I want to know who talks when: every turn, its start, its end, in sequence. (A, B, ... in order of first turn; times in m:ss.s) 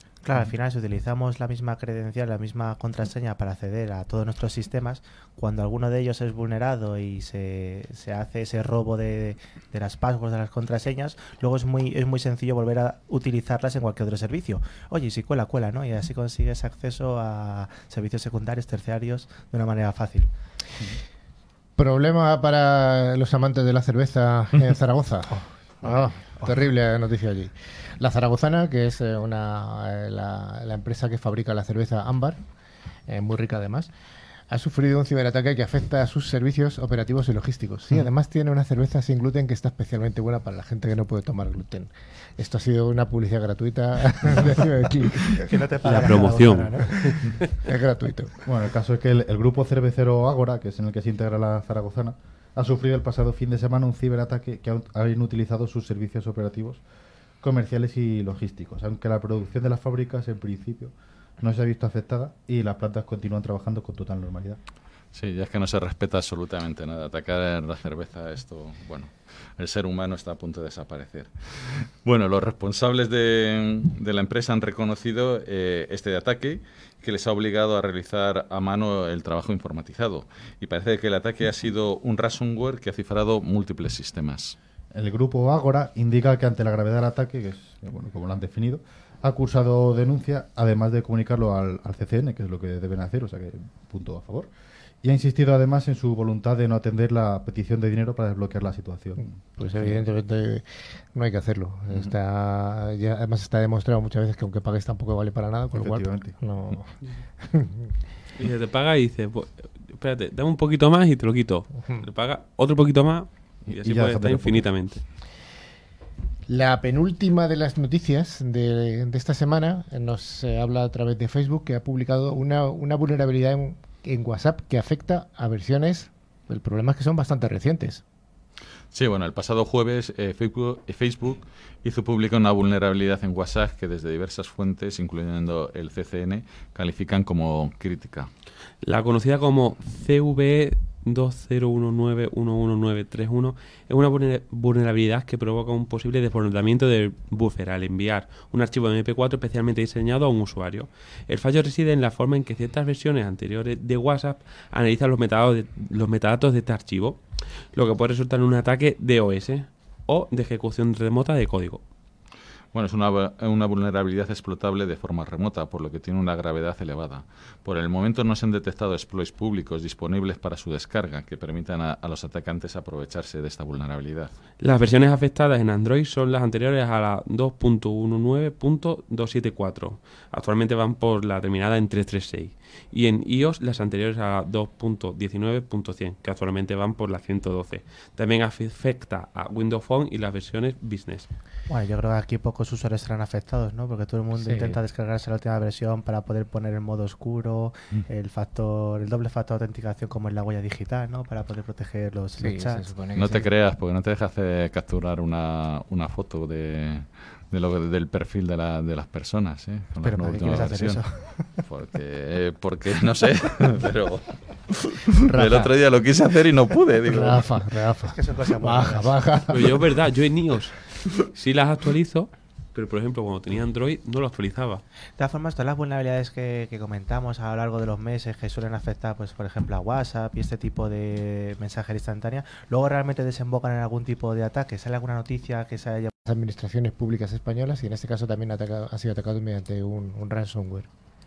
0:00.2-0:20.3 A
0:21.8-0:25.3 B
0:25.3-0:26.6 A
0:25.8-0:32.4 B
0:33.1-0:33.9 B
0:34.5-0:45.5 B
0:45.5-0:47.1 A
0:45.8-0:46.8 C
0:47.0-0:48.4 B
0:48.4-0:56.8 D
0:57.4-1:04.6 D
1:05.1-1:24.6 E
1:24.9-1:34.5 D
1:35.0-1:40.0 D
1:39.2-1:47.8 B
1:45.7-1:46.4 D
1:48.4-1:55.0 C
1:53.7-1:54.7 D
1:56.5-2:08.0 B
2:08.9-2:18.3 E
2:18.8-2:37.2 C
2:37.7-2:41.8 C
2:42.7-2:54.4 E
2:54.6-3:11.3 C
3:11.7-3:22.8 A
3:14.4-3:14.8 B
3:22.4-3:23.5 B
3:23.2-3:37.5 E
3:30.0-3:31.4 A
3:35.3-3:35.7 B
3:37.1-3:39.8 B
3:38.1-3:39.2 A
3:39.5-3:44.8 C
3:45.2-3:56.1 A
3:56.3-4:00.9 B